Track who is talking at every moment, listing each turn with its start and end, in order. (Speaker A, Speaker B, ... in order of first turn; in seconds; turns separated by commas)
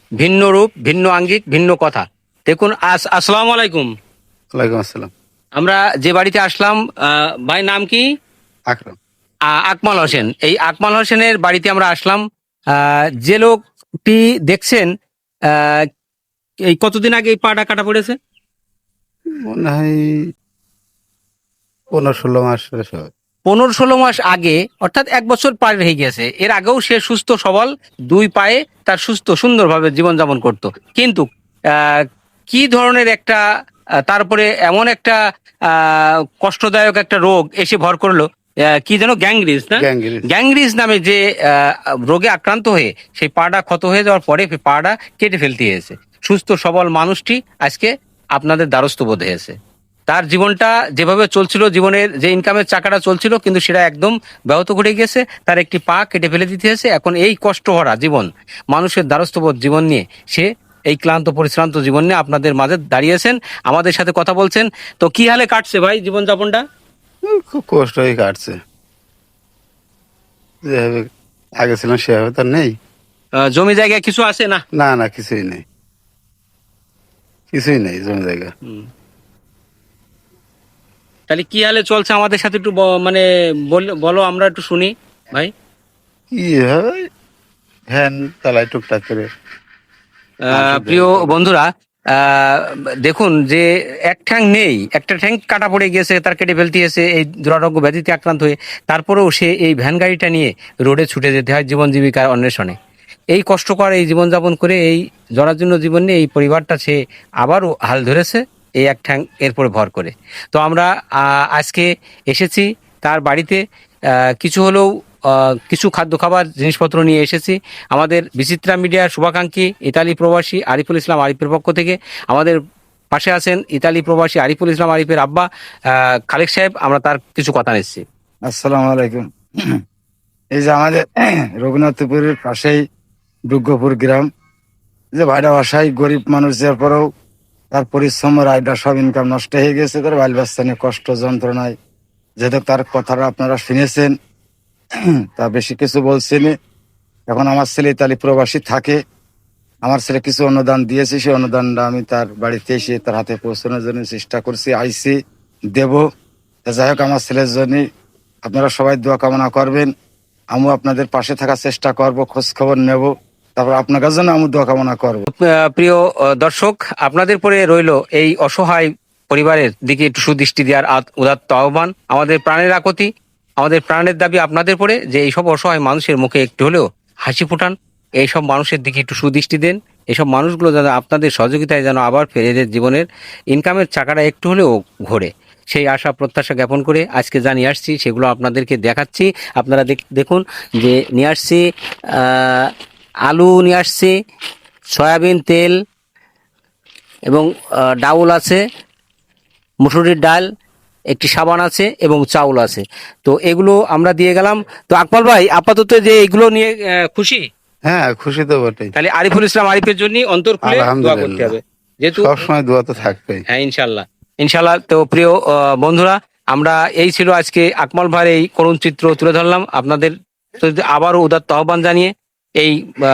Speaker A: 0.2-3.9, Speaker B: 4.5-5.1, Speaker A: 5.6-8.0, Speaker B: 8.7-9.0, Speaker A: 9.6-12.2, Speaker A: 12.8-14.9, Speaker A: 15.5-15.8, Speaker A: 16.7-18.1, Speaker B: 19.4-20.1, Speaker B: 21.9-23.1, Speaker A: 23.4-33.4, Speaker A: 34.1-35.2, Speaker A: 35.7-38.2, Speaker A: 38.8-49.5, Speaker B: 39.8-40.3, Speaker A: 50.1-66.6, Speaker B: 67.3-68.6, Speaker B: 70.7-71.1, Speaker B: 71.6-72.7, Speaker A: 73.5-74.6, Speaker B: 74.7-75.6, Speaker B: 77.5-78.5, Speaker A: 81.3-85.5, Speaker B: 86.3-87.0, Speaker B: 87.9-89.3, Speaker B: 90.5-91.3, Speaker A: 90.5-102.7, Speaker A: 103.3-113.6, Speaker A: 114.4-122.6, Speaker A: 123.1-128.0, Speaker C: 128.5-129.2, Speaker C: 130.5-131.0, Speaker C: 131.6-132.8, Speaker C: 133.5-134.3, Speaker C: 135.2-137.0, Speaker C: 137.7-141.7, Speaker C: 142.4-144.1, Speaker C: 145.3-146.5, Speaker C: 147.3-149.0, Speaker C: 149.8-155.1, Speaker C: 155.7-156.0, Speaker C: 156.7-157.8, Speaker C: 158.4-159.9, Speaker C: 160.5-165.2, Speaker A: 165.3-173.1, Speaker A: 173.6-191.6, Speaker A: 192.1-192.7, Speaker A: 193.2-194.1, Speaker A: 194.9-195.7, Speaker A: 198.0-198.6, Speaker A: 199.8-200.4, Speaker A: 201.1-207.4, Speaker B: 207.8-208.9, Speaker A: 208.9-212.4, Speaker B: 210.6-211.5, Speaker B: 212.1-213.4, Speaker A: 213.1-222.8